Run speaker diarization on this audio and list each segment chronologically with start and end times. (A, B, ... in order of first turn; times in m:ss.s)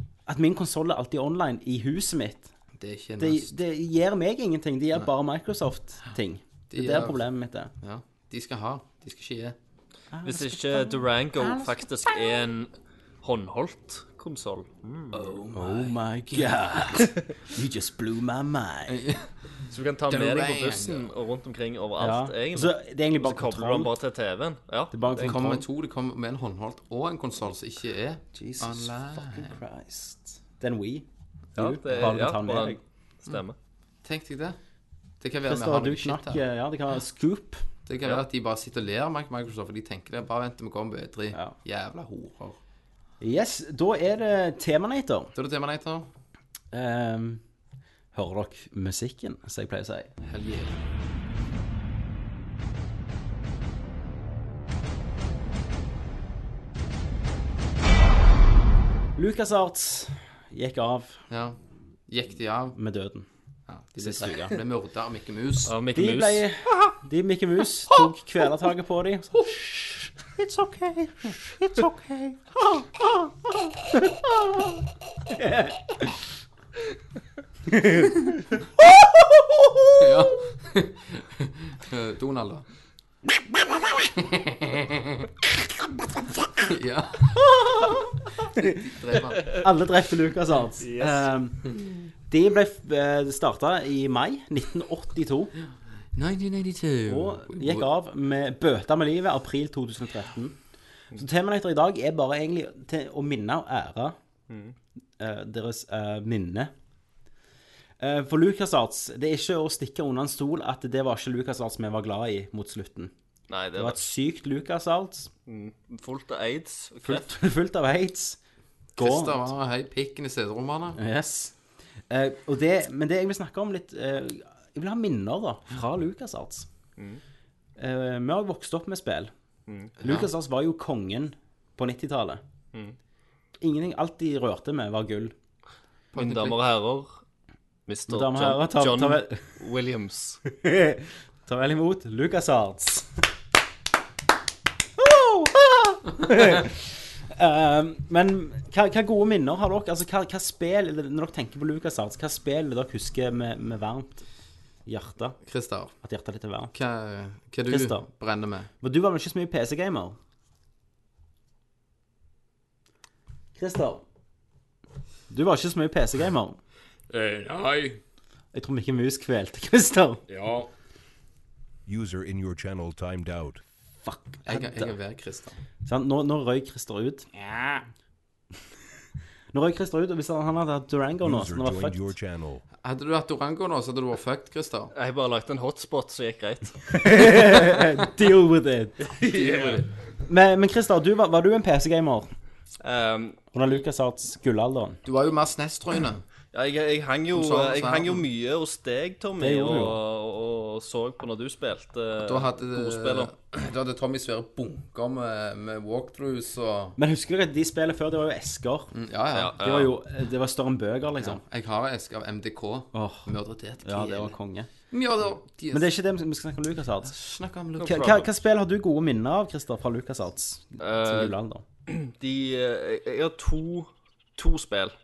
0:00.3-0:02.5 A
0:02.8-0:03.5 B
0:03.2-0:07.7 A
0:06.7-0:07.2 B
0:07.8-0:09.6 B
0:10.1-0:11.9 A
0:10.2-0:12.7 C
0:13.2-0:15.3 C
0:15.1-0:16.6 B
0:15.5-0:19.1 A
0:18.9-0:21.1 B
0:19.7-0:25.3 C
0:22.0-0:23.9 A
0:24.9-0:25.6 A
0:25.2-0:29.6 B
0:28.3-0:32.8 A
0:31.6-0:33.6 C
0:34.0-0:34.6 B
0:35.2-0:36.4 B
0:35.5-0:37.7 A
0:37.9-0:42.6 B
0:43.2-0:45.3 A
0:45.4-0:46.1 B
0:46.7-0:47.4 A
0:48.1-0:50.1 A
0:50.2-0:50.8 B
0:59.2-1:01.2 A
1:01.3-1:02.8 B
1:02.8-1:03.3 A
1:03.7-1:05.7 B
1:04.0-1:04.6 A
1:05.7-1:06.5 C
1:05.9-1:16.2 A
1:17.7-1:20.3 A
1:20.0-1:22.7 B
1:24.2-1:25.1 B
1:26.7-1:27.4 B
1:27.4-1:28.9 A
1:28.8-1:29.5 B
1:29.5-1:35.5 A
1:30.8-1:31.2 C
1:36.2-1:37.9 B
1:37.1-1:40.6 A
1:41.1-1:44.2 A
1:44.5-1:44.8 C
1:45.2-1:46.7 A
1:48.0-1:53.1 A
1:53.5-1:54.0 C
1:53.8-1:55.3 A
1:55.5-1:57.3 C
1:57.0-1:58.4 A
1:59.0-1:59.5 A
1:59.0-2:01.0 B
2:01.0-2:01.6 A
2:02.1-2:06.7 A
2:07.8-2:09.3 A
2:09.7-2:09.9 C
2:10.0-2:12.4 A
2:13.6-2:15.4 A
2:16.1-2:16.6 B
2:16.2-2:17.2 C
2:17.9-2:20.4 C
2:18.1-2:19.4 A
2:20.5-2:23.1 A
2:25.0-2:34.2 A
2:34.9-2:35.4 A
2:35.4-2:35.9 B
2:36.0-2:36.7 A
2:36.7-2:38.7 B
2:37.7-2:38.0 A
2:38.8-2:40.2 A
2:43.6-2:44.0 A
2:45.3-2:46.6 A
2:47.1-2:48.0 B
2:48.5-2:50.2 A
2:50.3-2:50.7 B
2:51.9-2:53.6 D
2:54.0-2:54.9 A
2:54.4-2:55.6 B
2:55.8-2:57.3 A
2:57.4-2:57.8 B
2:59.5-3:02.1 A
3:01.2-3:02.6 D
3:02.8-3:04.9 B
3:04.9-3:07.3 C
3:06.9-3:09.1 A
3:09.1-3:09.8 C
3:09.2-3:09.9 B
3:10.3-3:12.3 A
3:12.8-3:13.4 C
3:13.5-3:15.0 A
3:15.0-3:16.2 B
3:16.5-3:23.4 C
3:17.3-3:18.2 B
3:19.4-3:20.0 A
3:22.2-3:27.0 B
3:27.0-3:28.9 A
3:28.9-3:29.6 B
3:29.3-3:29.9 C
3:29.6-3:31.4 A
3:31.2-3:34.4 B
3:32.9-3:33.3 A
3:33.8-3:34.7 A
3:34.9-3:35.9 B
3:35.7-3:37.2 A
3:37.0-3:38.1 B
3:37.8-3:38.3 C
3:37.8-3:41.6 A
3:40.8-3:41.4 C
3:41.9-3:45.0 C